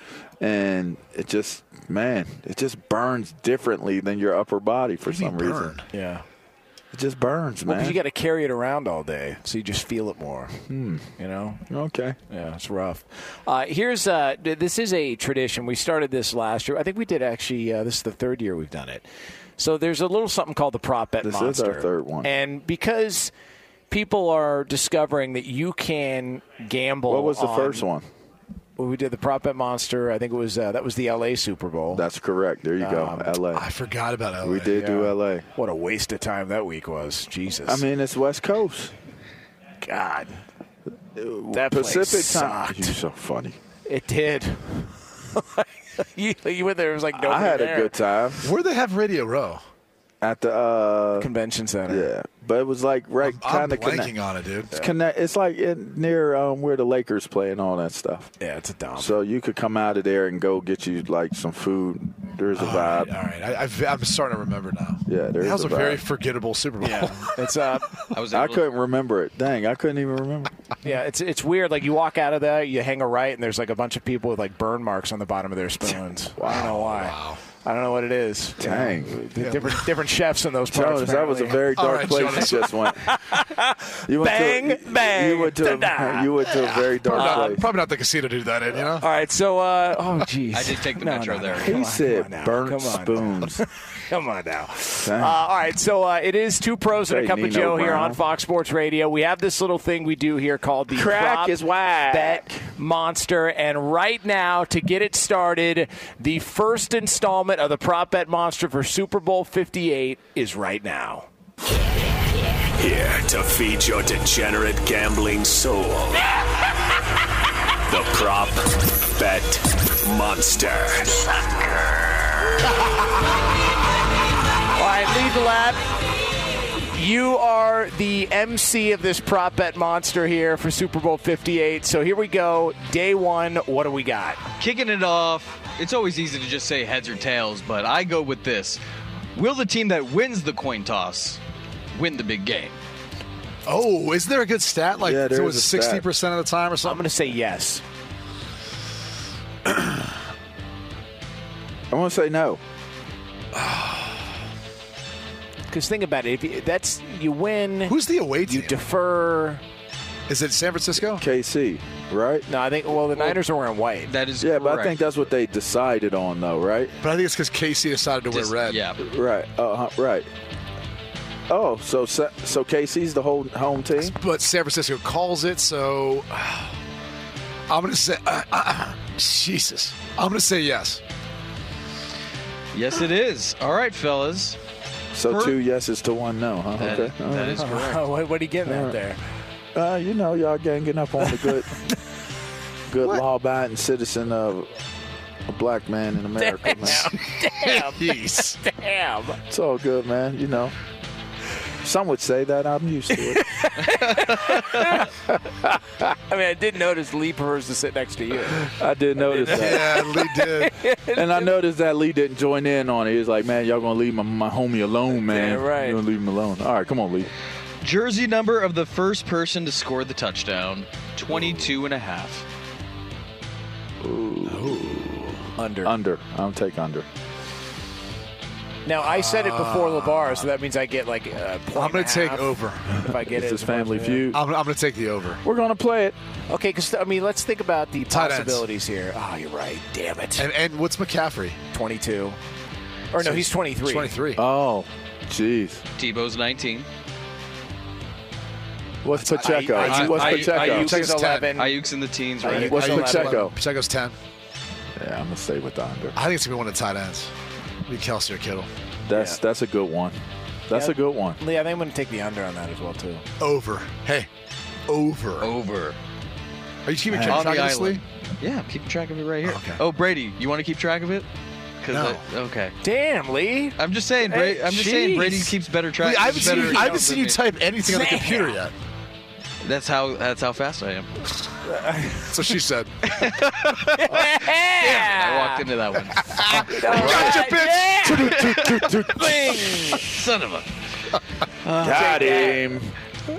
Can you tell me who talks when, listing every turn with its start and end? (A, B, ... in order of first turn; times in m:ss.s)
0:00.4-0:05.8 A
0:05.1-0:05.8 B
0:05.9-0:06.2 C
0:06.9-0:08.0 A
0:07.6-0:10.6 C
0:10.7-0:11.1 A
0:11.2-0:11.6 C
0:11.7-0:12.2 A
0:12.3-0:19.1 C
0:19.6-0:23.3 C
0:21.2-0:22.3 A
0:23.9-0:27.9 C
0:27.1-0:28.1 A
0:28.8-0:32.1 C
0:31.9-0:33.7 A
0:32.8-0:33.4 C
0:33.5-0:34.8 B
0:34.4-0:35.5 A
0:34.7-0:37.8 C
0:37.7-0:38.9 A
0:39.8-0:40.4 C
0:41.2-0:43.6 A
0:41.5-0:43.0 C
0:43.9-0:47.9 C
0:47.1-0:48.5 A
0:48.4-0:49.6 B
0:50.2-0:51.3 A
0:51.2-0:52.1 C
0:51.9-0:54.1 A
0:53.2-0:54.7 B
0:54.7-0:58.3 A
0:58.4-0:59.1 C
0:59.0-1:03.1 A
1:02.6-1:07.4 B
1:05.1-1:06.0 A
1:06.8-1:08.0 C
1:08.1-1:08.6 D
1:08.3-1:10.6 A
1:10.8-1:21.7 C
1:16.4-1:16.7 A
1:16.4-1:17.4 B
1:18.6-1:19.2 A
1:19.4-1:19.8 B
1:20.7-1:23.0 A
1:21.8-1:22.8 B
1:23.0-1:26.5 C
1:24.1-1:27.6 A
1:27.0-1:29.1 B
1:27.1-1:27.6 C
1:29.0-1:51.3 C
1:30.5-1:31.8 D
1:31.6-1:33.6 A
1:35.0-1:35.4 A
1:37.0-1:38.2 A
1:40.9-1:42.6 A
1:52.8-1:56.2 E
1:57.9-2:01.2 E
2:04.8-2:05.8 C
2:06.9-2:14.4 C
2:14.6-2:18.8 D
2:19.4-2:21.4 D
2:21.9-2:22.8 D
2:23.7-2:27.1 B
2:25.0-2:26.1 A
2:26.8-2:27.8 C
2:31.9-2:32.6 A
2:33.6-2:34.1 B
2:35.7-2:39.6 C
2:37.9-2:38.8 B
2:40.3-2:41.2 B
2:41.2-2:42.5 A
2:42.5-2:44.1 C
2:44.1-2:45.0 D
2:44.4-2:47.0 A
2:47.0-2:48.8 B
2:48.3-2:49.0 D
2:49.0-2:50.3 A
2:51.5-2:54.2 A
2:54.1-2:56.7 B
2:57.7-3:01.0 B
3:02.7-3:04.6 D
3:05.1-3:07.9 A
3:05.3-3:05.6 D
3:06.8-3:08.0 D
3:07.6-3:09.2 C
3:08.7-3:09.0 A
3:09.8-3:11.7 A
3:12.9-3:14.7 A
3:15.5-3:17.1 A
3:16.4-3:19.4 C
3:17.6-3:18.6 B
3:19.5-3:20.8 A
3:21.8-3:23.5 A
3:23.2-3:25.1 C
3:26.3-3:28.7 C
3:28.6-3:30.0 A
3:29.3-3:31.5 C
3:29.4-3:30.7 B
3:31.1-3:37.3 A
3:35.1-3:36.0 C
3:37.8-3:42.4 D
3:44.0-3:47.1 A
3:44.5-3:45.1 B
3:45.6-3:45.9 C
3:48.9-3:54.3 C
3:49.0-3:50.5 B
3:51.7-3:52.9 B
3:53.0-3:54.4 A
3:54.3-3:55.4 B
3:55.4-3:56.2 A
3:56.5-4:00.5 C
3:58.1-3:58.6 B
4:00.4-4:01.6 B
4:01.7-4:02.4 C
4:03.1-4:04.1 C
4:03.2-4:04.4 B
4:04.4-4:05.8 A
4:06.0-4:06.9 D
4:09.0-4:10.9 A
4:09.2-4:11.6 B
4:09.3-4:11.8 C
4:11.6-4:12.8 D
4:12.4-4:13.4 C
4:12.5-4:13.6 A
4:12.5-4:14.2 B
4:15.0-4:16.2 A
4:16.2-4:17.3 B
4:17.9-4:18.7 B
4:19.1-4:20.2 A
4:19.1-4:19.4 C
4:20.7-4:21.4 A
4:20.7-4:23.2 C
4:23.4-4:24.3 B
4:24.9-4:25.5 B
4:25.4-4:26.0 D
4:26.9-4:28.0 B
4:27.1-4:27.6 A
4:27.3-4:31.3 D
4:29.4-4:29.8 B
4:31.8-4:32.8 D
4:31.9-4:32.2 B
4:32.8-4:33.8 C
4:33.8-4:37.4 D
4:34.3-4:35.5 C
4:36.0-4:38.7 B
4:36.3-4:37.0 C
4:37.8-4:38.6 C
4:39.6-4:41.1 D
4:42.3-4:42.9 B
4:43.1-4:44.1 D
4:44.0-4:45.6 C
4:44.8-4:46.6 D
4:46.3-4:48.2 B
4:46.5-4:48.3 C
4:48.0-4:50.2 A
4:48.2-4:49.0 D
4:49.1-4:50.0 C
4:49.9-4:50.7 D
4:51.6-4:52.6 D
4:51.8-4:52.9 A
4:51.8-4:52.6 C